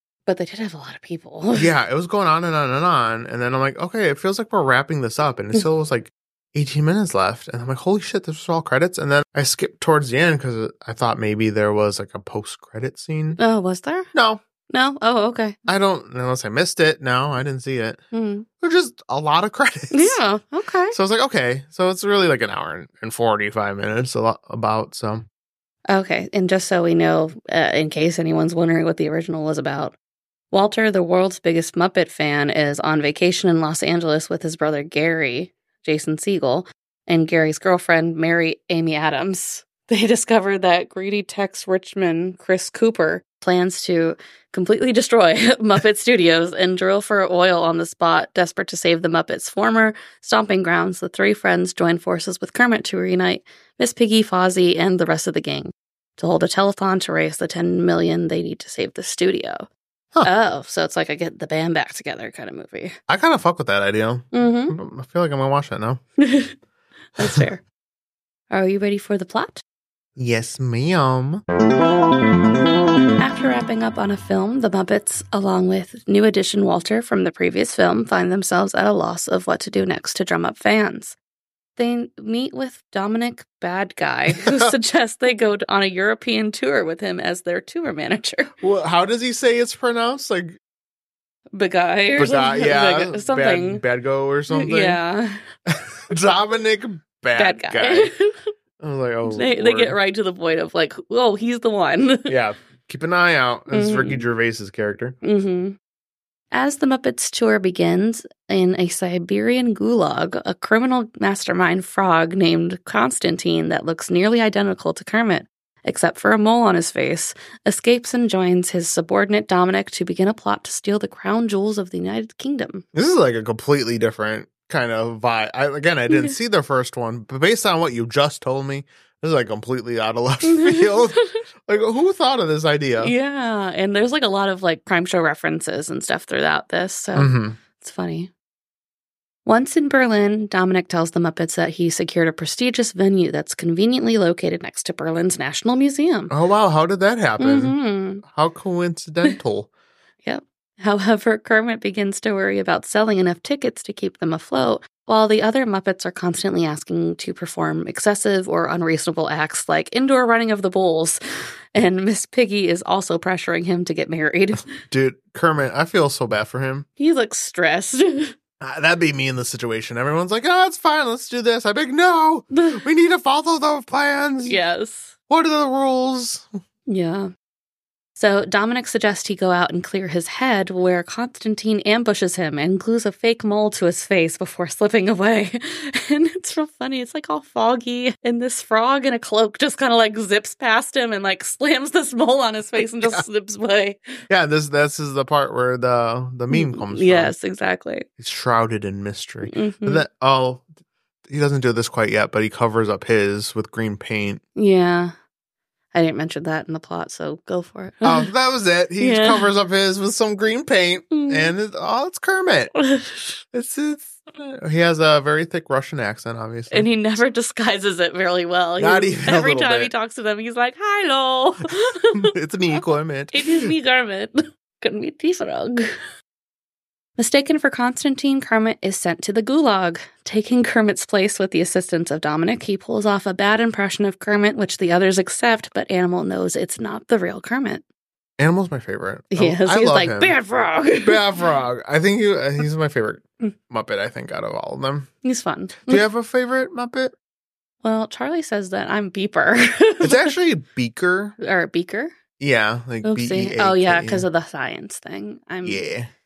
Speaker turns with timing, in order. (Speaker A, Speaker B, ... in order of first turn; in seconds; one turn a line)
Speaker A: 0.3-1.7
Speaker B: 1.6-13.4
Speaker A: 13.4-14.1
Speaker B: 14.1-14.4
Speaker A: 14.7-15.6
Speaker B: 15.7-18.0
Speaker A: 18.1-18.5
Speaker B: 18.6-20.2
Speaker A: 19.9-21.0
Speaker B: 20.9-25.3
Speaker A: 25.9-29.9
Speaker A: 30.5-59.7
Speaker A: 60.2-63.0
Speaker B: 63.1-66.0
Speaker A: 64.3-64.8
Speaker A: 66.2-66.5
Speaker A: 67.2-67.6
Speaker A: 68.5-69.6
Speaker B: 70.2-71.4
Speaker A: 73.2-81.2
Speaker A: 81.8-88.5
Speaker B: 84.4-84.7
Speaker B: 88.6-90.6
Speaker A: 91.5-93.8
Speaker B: 92.2-95.0
Speaker A: 94.5-95.4
Speaker B: 95.7-98.1
Speaker A: 97.4-98.3
Speaker B: 98.8-100.0
Speaker A: 99.3-102.3
Speaker B: 102.3-105.2
Speaker A: 103.7-104.2
Speaker A: 105.2-105.8
Speaker A: 106.5-122.8
Speaker B: 122.9-133.1
Speaker A: 126.1-126.3
Speaker A: 130.5-131.4
Speaker A: 133.0-138.3
Speaker B: 137.2-137.6
Speaker A: 139.5-146.3
Speaker B: 146.3-149.7
Speaker A: 147.4-148.2
Speaker A: 150.2-161.2
Speaker A: 161.8-164.7
Speaker B: 164.7-166.9
Speaker A: 167.0-168.3
Speaker B: 168.6-174.6
Speaker A: 172.5-172.8
Speaker A: 174.4-175.1
Speaker B: 175.3-176.5
Speaker A: 176.9-177.3
Speaker A: 178.2-194.0
Speaker B: 194.3-197.3
Speaker A: 196.5-198.1
Speaker B: 198.2-200.7
Speaker A: 199.4-200.1
Speaker B: 201.3-204.4
Speaker A: 204.6-205.1
Speaker A: 205.9-208.3
Speaker B: 208.0-212.7
Speaker A: 209.0-209.5
Speaker A: 211.1-211.5
Speaker A: 212.8-213.4
Speaker B: 213.5-216.9
Speaker A: 216.7-222.3
Speaker B: 218.8-219.9
Speaker B: 222.2-223.7
Speaker A: 223.3-225.9
Speaker A: 227.2-237.8
Speaker B: 238.4-240.3
Speaker A: 239.3-241.2
Speaker B: 241.0-245.1
Speaker A: 245.2-246.1
Speaker B: 245.9-247.1
Speaker A: 247.8-250.3
Speaker B: 250.0-251.4
Speaker A: 251.4-252.1
Speaker B: 252.4-254.2
Speaker A: 253.0-255.8
Speaker B: 255.6-256.1